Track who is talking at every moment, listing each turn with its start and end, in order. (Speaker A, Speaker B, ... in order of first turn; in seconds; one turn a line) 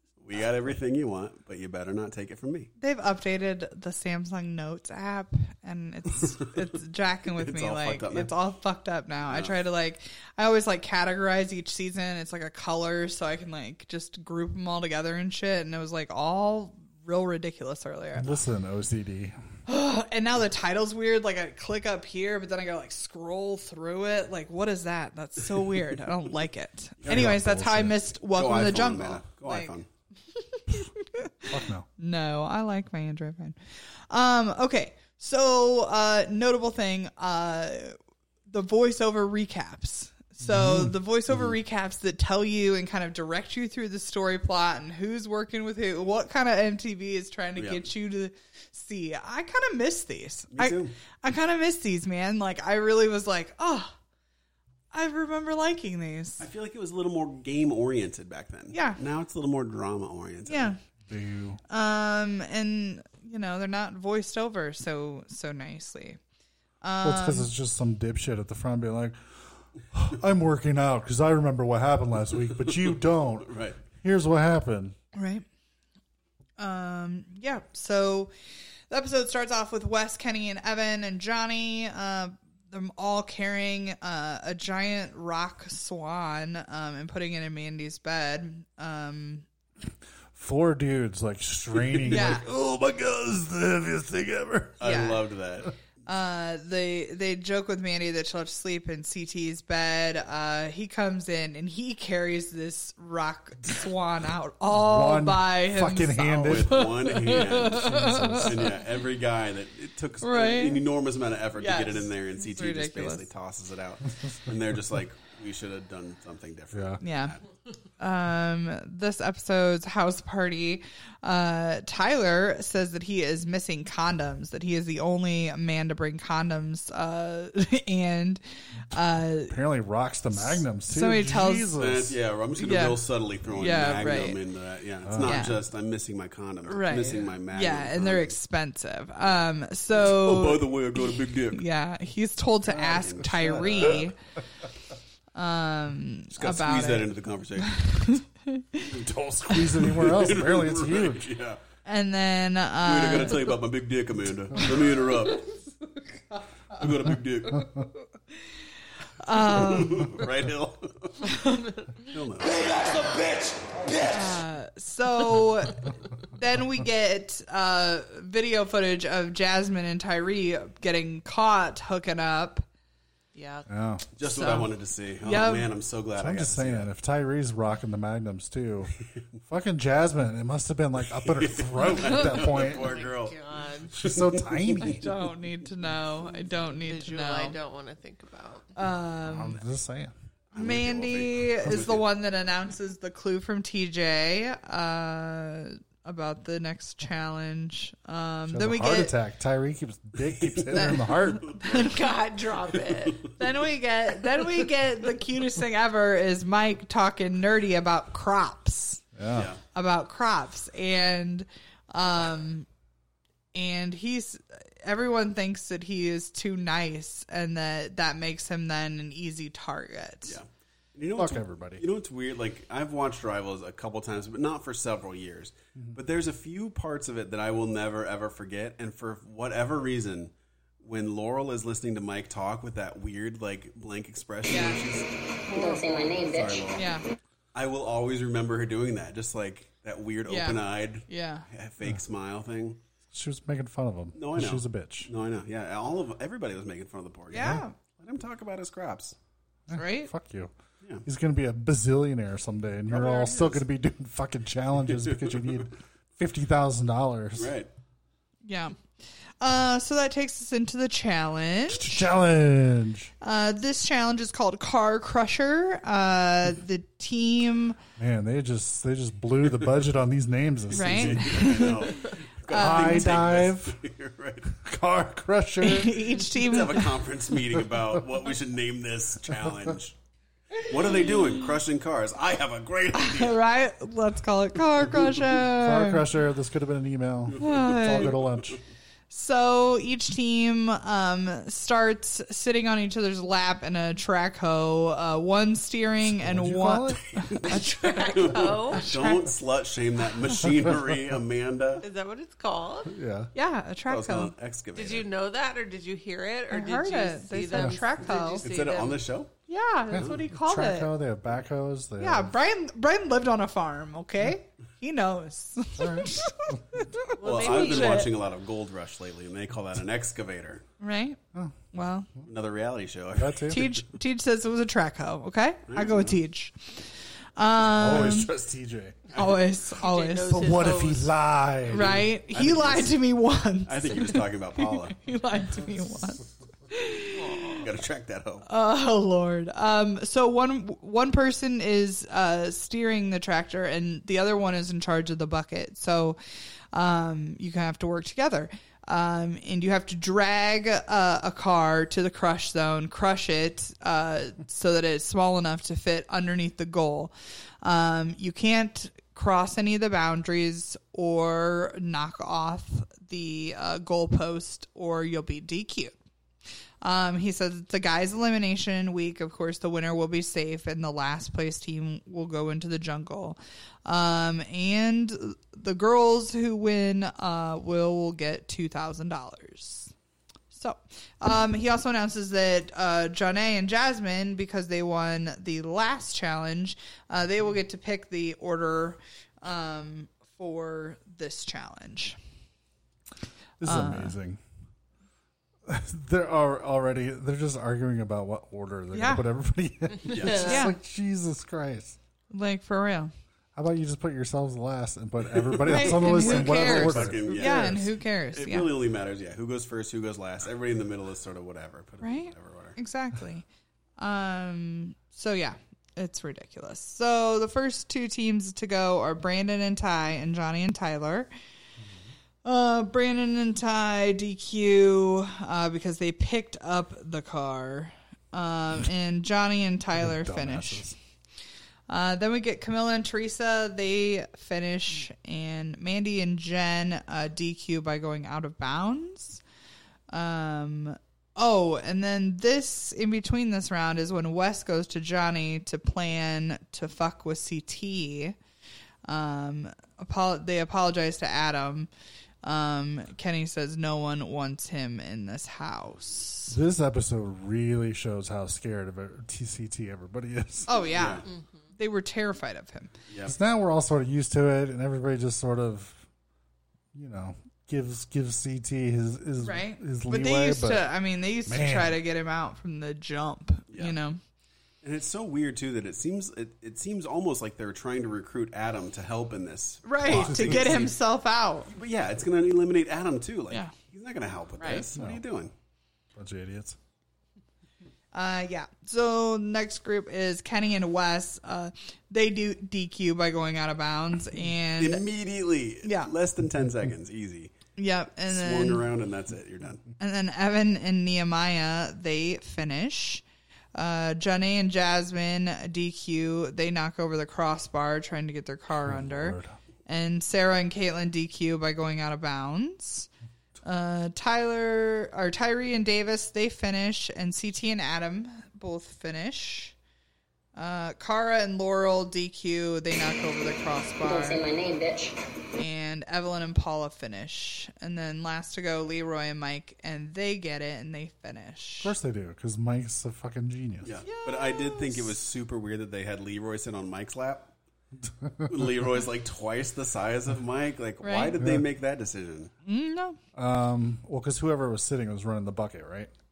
Speaker A: 0.2-2.7
Speaker B: 2.8-18.4
Speaker A: 7.3-8.3
Speaker A: 9.3-9.6
Speaker C: 18.2-19.4
Speaker B: 19.7-29.7
Speaker A: 27.0-27.4
Speaker C: 27.0-28.1
Speaker A: 28.3-29.9
Speaker B: 30.3-33.6
Speaker C: 31.5-31.9
Speaker B: 34.1-38.0
Speaker B: 38.5-54.0
Speaker C: 40.4-40.9
Speaker A: 47.6-47.9
Speaker A: 50.5-50.9
Speaker B: 54.9-56.5
Speaker A: 56.4-60.8
Speaker B: 58.7-59.0
Speaker B: 60.5-60.8
Speaker C: 61.1-61.6
Speaker B: 61.7-66.2
Speaker B: 66.8-67.5
Speaker C: 67.0-75.0
Speaker A: 72.7-73.8
Speaker B: 75.2-75.5
Speaker B: 76.6-78.3
Speaker B: 78.9-89.5
Speaker C: 90.3-94.8
Speaker A: 91.8-92.2
Speaker B: 92.1-92.5
Speaker A: 94.8-95.7
Speaker B: 94.8-95.3
Speaker B: 96.1-108.8
Speaker C: 104.7-106.9
Speaker A: 106.2-117.4
Speaker C: 107.7-108.5
Speaker B: 110.2-110.8
Speaker B: 111.5-113.3
Speaker C: 116.7-117.0
Speaker B: 117.0-117.4
Speaker B: 118.0-129.6
Speaker C: 129.4-132.2
Speaker B: 130.9-131.7
Speaker A: 131.8-138.4
Speaker B: 132.6-133.0
Speaker B: 133.6-134.4
Speaker C: 135.1-135.6
Speaker B: 135.2-135.6
Speaker B: 136.7-144.2
Speaker C: 136.9-137.3
Speaker A: 139.9-141.6
Speaker A: 142.7-144.1
Speaker C: 143.0-144.0
Speaker B: 145.3-147.1
Speaker A: 146.3-148.1
Speaker B: 147.7-148.9
Speaker C: 148.9-151.3
Speaker A: 149.7-151.6
Speaker B: 151.9-153.5
Speaker A: 152.8-155.6
Speaker A: 156.7-157.7
Speaker B: 159.2-160.3
Speaker A: 159.4-161.4
Speaker B: 161.2-161.9
Speaker A: 162.0-163.1
Speaker B: 164.0-172.7
Speaker D: 173.3-173.7
Speaker C: 173.7-174.1
Speaker A: 174.2-176.9
Speaker B: 174.2-175.7
Speaker C: 176.2-183.0
Speaker A: 181.2-183.4
Speaker D: 182.3-183.9
Speaker A: 183.9-185.1
Speaker C: 183.9-185.1
Speaker B: 184.8-187.6
Speaker D: 186.9-188.7
Speaker B: 188.8-189.6
Speaker C: 189.2-190.1
Speaker A: 190.5-192.0
Speaker B: 190.6-199.2
Speaker C: 198.5-201.5
Speaker A: 200.5-202.0
Speaker B: 200.7-201.9
Speaker D: 201.7-203.3
Speaker A: 202.9-203.3
Speaker B: 203.4-209.0
Speaker C: 209.2-209.5
Speaker A: 209.3-209.6
Speaker B: 209.7-212.7
Speaker B: 213.5-220.4
Speaker A: 220.3-235.2
Speaker C: 221.1-221.9
Speaker B: 234.5-234.9
Speaker B: 235.5-236.2
Speaker E: 235.5-236.7
Speaker A: 236.2-236.8
Speaker B: 236.8-237.1
Speaker A: 237.5-242.8
Speaker B: 240.2-241.5
Speaker C: 243.1-245.1
Speaker A: 244.2-249.2
Speaker B: 247.3-247.8
Speaker C: 249.7-250.5
Speaker B: 249.7-250.1
Speaker C: 251.1-257.6
Speaker A: 252.9-253.6
Speaker A: 255.1-255.5
Speaker A: 257.4-257.7
Speaker B: 258.4-258.8
Speaker B: 259.4-262.1
Speaker C: 261.7-263.1
Speaker B: 263.2-267.8
Speaker C: 268.0-271.9
Speaker B: 270.7-273.2
Speaker A: 270.7-274.6
Speaker C: 272.5-273.8
Speaker C: 274.6-276.2
Speaker B: 275.6-276.9
Speaker A: 276.2-280.0
Speaker C: 277.5-278.0
Speaker B: 280.6-281.4
Speaker A: 280.6-283.4
Speaker B: 282.9-286.1
Speaker A: 284.8-285.3
Speaker C: 285.5-288.6
Speaker A: 287.3-288.6
Speaker B: 287.4-288.2
Speaker B: 289.1-299.3
Speaker C: 296.1-297.1
Speaker D: 297.4-298.9
Speaker A: 298.1-301.9
Speaker D: 301.8-302.9
Speaker C: 302.9-303.3
Speaker B: 303.3-304.3
Speaker A: 303.9-305.1
Speaker D: 304.8-309.1
Speaker B: 306.5-308.5
Speaker A: 308.3-309.3
Speaker B: 309.5-310.9
Speaker C: 309.9-312.3
Speaker A: 309.9-310.2
Speaker B: 312.0-316.9
Speaker C: 315.8-317.2
Speaker D: 317.2-318.1
Speaker A: 317.2-320.6
Speaker B: 317.4-318.1
Speaker B: 320.8-321.2
Speaker B: 321.7-322.1
Speaker A: 322.3-323.8
Speaker C: 323.2-323.7
Speaker B: 323.5-326.8
Speaker A: 325.7-326.2
Speaker B: 327.4-328.3
Speaker C: 327.6-329.0
Speaker B: 329.1-330.8
Speaker D: 329.8-331.2
Speaker C: 330.3-332.1
Speaker B: 331.7-337.6
Speaker A: 331.7-333.0
Speaker A: 333.6-335.0
Speaker D: 337.1-337.6
Speaker A: 337.5-338.5
Speaker B: 338.5-346.2
Speaker B: 346.7-366.0
Speaker B: 366.8-379.9
Speaker B: 380.5-392.2
Speaker C: 393.6-394.4
Speaker B: 393.6-394.1
Speaker C: 395.7-402.0
Speaker B: 398.9-399.2
Speaker A: 400.1-400.5
Speaker B: 400.3-400.8
Speaker B: 402.3-403.1
Speaker C: 403.6-407.8
Speaker A: 405.3-412.8
Speaker B: 405.7-408.7
Speaker B: 412.0-413.5
Speaker B: 414.0-421.3
Speaker B: 422.4-430.9
Speaker C: 430.0-431.0
Speaker B: 431.9-439.4
Speaker B: 440.1-448.4
Speaker B: 449.1-451.9
Speaker B: 452.4-456.6
Speaker C: 456.5-460.7
Speaker B: 460.7-462.9
Speaker A: 460.9-461.3
Speaker A: 463.1-463.4
Speaker C: 463.2-466.1
Speaker C: 466.9-470.9
Speaker B: 469.4-474.2
Speaker C: 471.5-472.0
Speaker A: 473.7-474.0
Speaker A: 474.8-481.0
Speaker B: 479.9-481.7
Speaker C: 480.1-480.9
Speaker A: 481.7-485.5
Speaker B: 484.6-484.8
Speaker C: 484.9-485.2
Speaker C: 486.1-486.8
Speaker B: 488.1-495.1
Speaker A: 494.8-497.6
Speaker B: 495.8-496.1
Speaker B: 497.8-498.9
Speaker A: 498.3-499.8
Speaker B: 500.0-503.2
Speaker B: 503.8-513.1
Speaker C: 508.8-509.5
Speaker B: 513.6-519.8
Speaker B: 520.5-524.5
Speaker E: 524.0-525.2
Speaker B: 525.6-531.9
Speaker C: 531.8-534.0
Speaker A: 533.8-537.5
Speaker B: 534.0-535.1
Speaker C: 538.0-538.7
Speaker A: 538.5-542.5
Speaker B: 541.0-541.4
Speaker C: 541.4-541.6
Speaker B: 542.7-543.2
Speaker C: 543.3-546.1